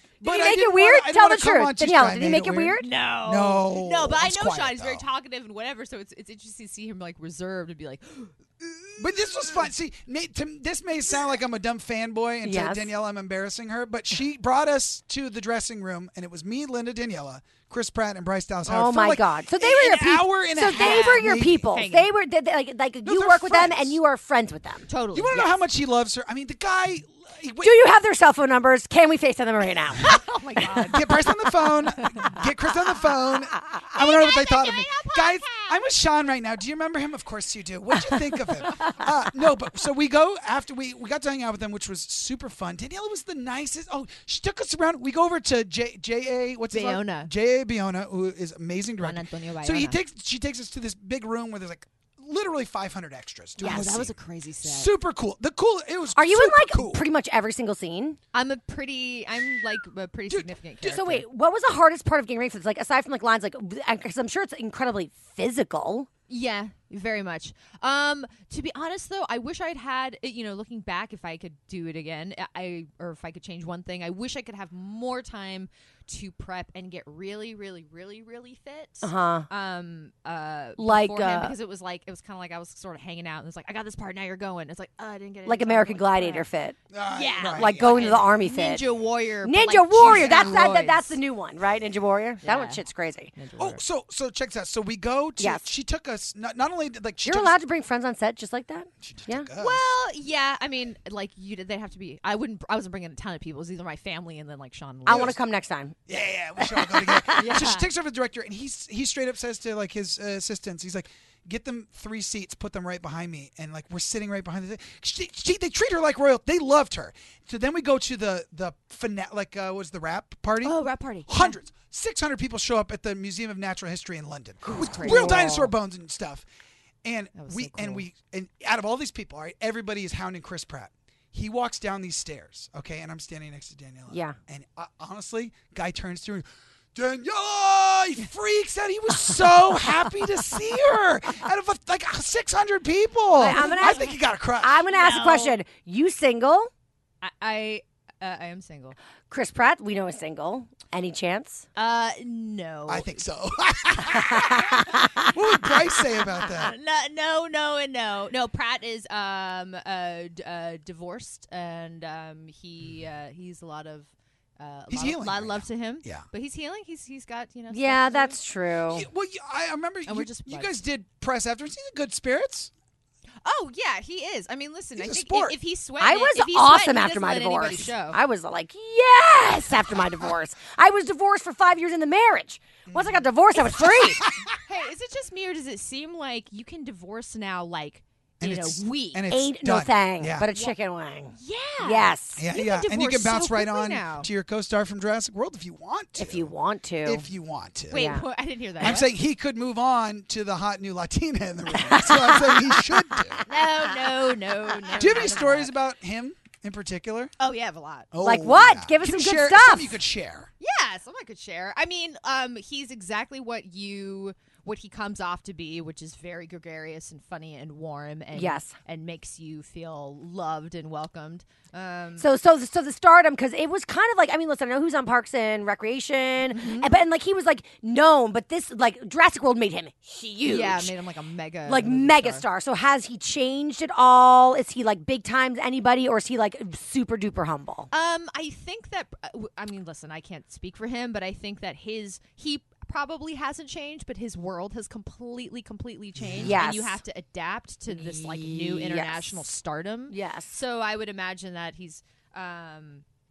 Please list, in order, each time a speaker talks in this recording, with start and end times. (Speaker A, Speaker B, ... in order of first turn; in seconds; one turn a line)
Speaker A: 0.2-5.0
Speaker B: 0.2-2.9
Speaker C: 2.8-9.4
Speaker A: 9.0-21.7
Speaker B: 12.4-12.9
Speaker B: 18.7-24.9
Speaker C: 20.7-22.1
Speaker A: 23.0-24.0
Speaker C: 24.9-25.5
Speaker A: 25.1-27.8
Speaker B: 27.6-30.1
Speaker C: 30.0-32.9
Speaker A: 30.9-57.0
Speaker C: 33.9-35.9
Speaker C: 46.7-47.3
Speaker C: 49.0-50.0
Speaker C: 53.6-54.9
Speaker B: 56.1-58.2
Speaker C: 58.3-61.2
Speaker B: 60.8-66.1
Speaker C: 66.3-86.5
Speaker B: 79.0-79.5
Speaker B: 80.8-81.5
Speaker B: 85.5-86.8
Speaker A: 86.9-88.4
Speaker C: 87.1-91.2
Speaker B: 87.4-88.8
Speaker B: 89.4-93.3
Speaker A: 90.0-90.7
Speaker C: 92.4-92.8
Speaker C: 93.4-93.8
Speaker A: 93.6-97.6
Speaker B: 95.4-95.7
Speaker B: 97.2-99.5
Speaker A: 99.0-99.9
Speaker C: 99.6-105.3
Speaker B: 105.1-106.0
Speaker A: 105.1-105.3
Speaker A: 106.1-126.4
Speaker B: 106.6-107.5
Speaker C: 107.3-107.9
Speaker C: 120.6-121.6
Speaker C: 124.6-125.6
Speaker B: 125.0-125.7
Speaker A: 127.0-144.8
Speaker C: 127.3-128.1
Speaker B: 134.1-134.4
Speaker B: 143.3-146.7
Speaker C: 143.4-144.2
Speaker C: 144.9-145.6
Speaker C: 147.2-149.0
Speaker B: 149.3-151.7
Speaker C: 151.8-153.2
Speaker A: 152.9-156.7
Speaker B: 154.3-155.3
Speaker C: 156.2-168.4
Speaker A: 164.9-166.3
Speaker B: 167.7-169.1
Speaker A: 168.9-172.7
Speaker C: 170.1-170.8
Speaker C: 173.4-178.2
Speaker A: 175.0-175.6
Speaker B: 176.0-184.2
Speaker A: 182.9-183.3
Speaker A: 183.8-184.6
Speaker C: 184.6-189.2
Speaker A: 188.4-190.5
Speaker B: 189.3-192.4
Speaker C: 191.3-194.3
Speaker A: 192.4-196.5
Speaker B: 196.2-197.3
Speaker A: 197.0-198.2
Speaker C: 197.9-199.1
Speaker B: 197.9-198.2
Speaker A: 198.8-203.5
Speaker B: 201.7-203.4
Speaker C: 203.5-205.7
Speaker A: 205.0-207.3
Speaker C: 207.4-208.1
Speaker A: 208.1-210.5
Speaker B: 208.2-210.0
Speaker C: 210.6-222.3
Speaker B: 218.3-218.8
Speaker B: 222.2-230.9
Speaker C: 226.5-226.9
Speaker C: 230.4-232.4
Speaker B: 231.7-237.9
Speaker C: 237.9-253.0
Speaker A: 246.2-246.6
Speaker B: 246.4-247.0
Speaker B: 247.9-249.4
Speaker B: 250.1-250.6